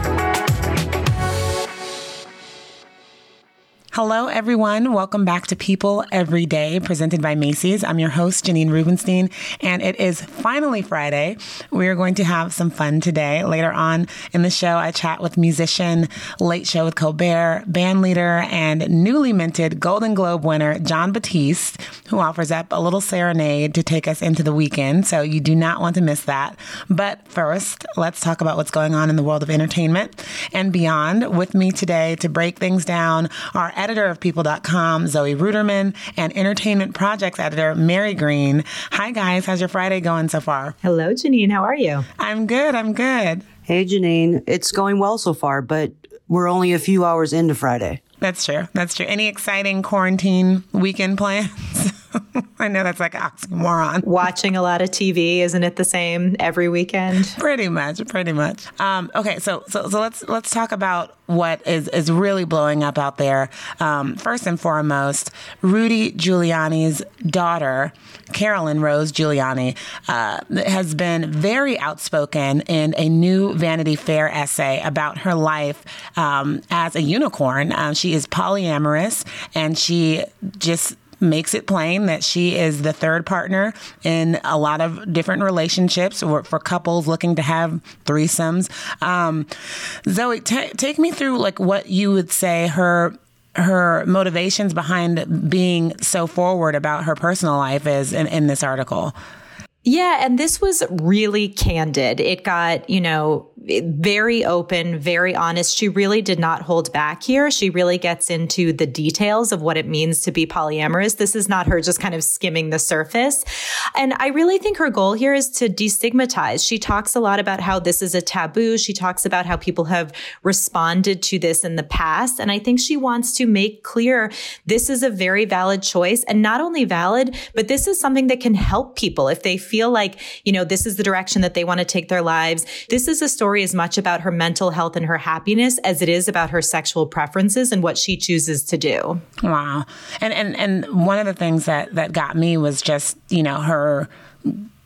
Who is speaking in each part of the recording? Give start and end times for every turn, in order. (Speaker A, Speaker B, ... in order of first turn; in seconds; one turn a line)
Speaker A: 3.9-40.8
Speaker B: 40.8-42.0
Speaker A: 42.2-43.5
Speaker C: 43.7-48.0
Speaker A: 48.2-54.1
Speaker B: 54.0-57.4
Speaker A: 57.4-89.5
Speaker A: 90.1-99.1
Speaker B: 99.8-139.2
Speaker A: 139.4-144.7